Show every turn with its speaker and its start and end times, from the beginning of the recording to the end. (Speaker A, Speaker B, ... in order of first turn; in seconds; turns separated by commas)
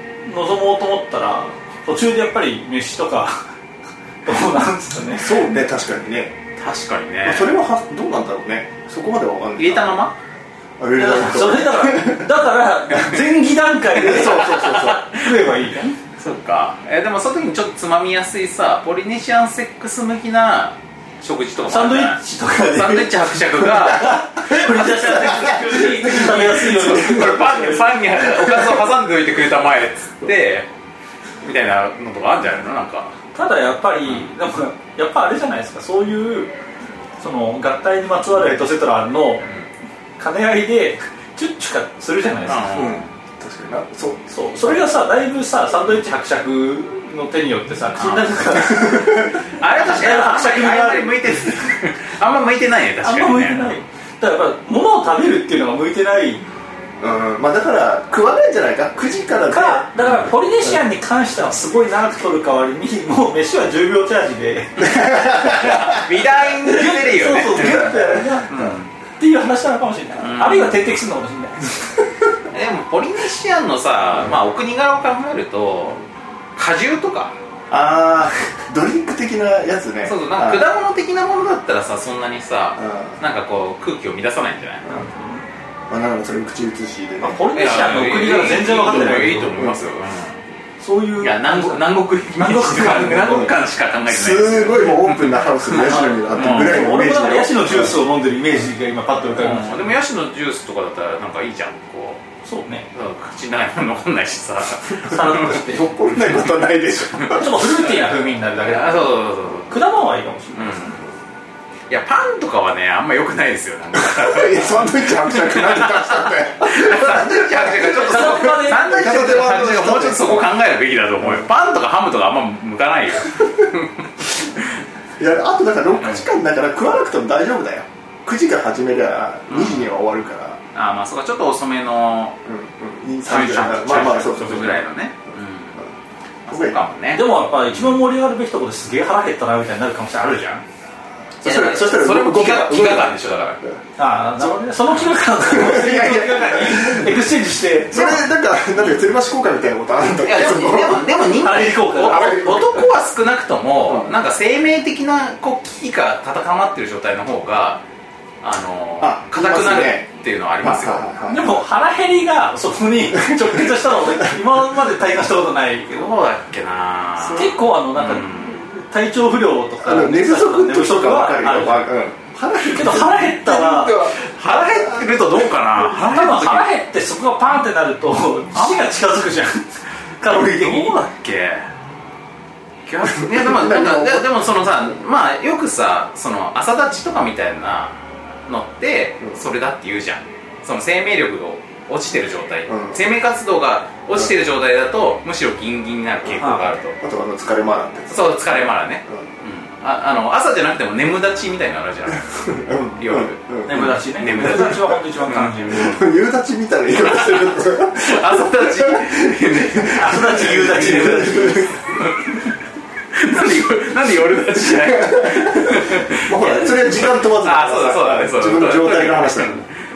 Speaker A: 0.2-3.4, Speaker A: 4.2-5.3, Speaker B: 5.1-6.3, Speaker C: 6.6-7.5, Speaker B: 7.2-10.0, Speaker C: 9.6-10.2, Speaker B: 10.8-12.3, Speaker A: 10.9-16.0, Speaker B: 13.9-15.1, Speaker C: 14.1-15.2, Speaker C: 16.2-24.3, Speaker A: 21.6-28.0, Speaker B: 24.0-27.7, Speaker C: 26.4-30.7, Speaker B: 28.2-28.8, Speaker C: 31.4-33.1, Speaker A: 33.3-36.5, Speaker C: 34.1-34.3, Speaker A: 37.2-39.5, Speaker A: 40.2-42.7, Speaker C: 42.4-43.1, Speaker B: 42.7-44.3, Speaker A: 44.3-51.6, Speaker C: 48.0-48.3, Speaker B: 48.6-49.4, Speaker C: 49.6-53.8, Speaker A: 53.0-56.4, Speaker B: 57.0-59.9, Speaker A: 59.5-64.9, Speaker C: 60.0-60.3, Speaker B: 64.8-66.1, Speaker C: 64.8-67.9, Speaker A: 66.6-72.0, Speaker B: 67.4-68.6, Speaker C: 68.5-68.9, Speaker C: 70.2-70.8, Speaker C: 72.5-76.0, Speaker C: 76.6-77.3, Speaker B: 77.7-80.7, Speaker C: 80.0-85.0, Speaker B: 82.8-83.2, Speaker A: 84.9-85.5, Speaker B: 85.9-87.4, Speaker A: 87.2-89.6, Speaker C: 87.5-90.4, Speaker B: 88.6-89.8, Speaker A: 90.8-93.5, Speaker C: 91.2-96.9, Speaker B: 93.2-93.5, Speaker B: 94.1-98.0, Speaker A: 95.8-100.0, Speaker C: 99.3-102.2, Speaker A: 102.4-102.9, Speaker C: 102.9-106.4, Speaker A: 105.0-106.0, Speaker B: 105.6-107.6, Speaker C: 107.1-109.7, Speaker A: 107.3-109.1, Speaker A: 109.7-111.0, Speaker C: 110.5-111.0, Speaker C: 111.9-124.8, Speaker B: 113.9-120.5, Speaker A: 118.0-119.4, Speaker B: 121.2-121.5, Speaker B: 125.2-130.6, Speaker C: 126.0-126.2, Speaker C: 129.5-129.9, Speaker C: 130.7-132.4, Speaker B: 132.4-134.8, Speaker C: 133.2-135.8, Speaker C: 136.4-138.0, Speaker B: 136.5-136.8, Speaker A: 137.1-140.6, Speaker B: 141.4-143.8, Speaker C: 141.4-143.6, Speaker A: 144.0-148.2, Speaker B: 145.4-147.1, Speaker B: 147.9-151.1, Speaker C: 148.8-149.1, Speaker C: 150.2-157.8, Speaker A: 151.4-152.6, Speaker B: 152.1-152.8, Speaker B: 153.9-154.1, Speaker C: 158.4-161.1, Speaker B: 159.0-160.1, Speaker B: 160.6-161.5, Speaker A: 161.2-166.1, Speaker B: 163.1-164.3, Speaker C: 165.9-168.6, Speaker A: 167.2-171.9, Speaker B: 169.8-175.1, Speaker A: 172.6-174.0, Speaker C: 174.1-176.7, Speaker A: 176.0-181.0, Speaker C: 178.5-178.9, Speaker C: 180.3-181.7, Speaker C: 182.9-197.0, Speaker B: 183.2-184.3, Speaker B: 192.7-193.0, Speaker A: 196.4-196.7, Speaker B: 197.0-199.3, Speaker C: 198.1-202.2, Speaker B: 202.1-205.0, Speaker C: 203.0-205.8, Speaker A: 203.7-206.0, Speaker B: 205.7-211.8, Speaker C: 207.0-212.4, Speaker A: 209.9-211.7, Speaker C: 213.1-219.8, Speaker B: 214.7-219.6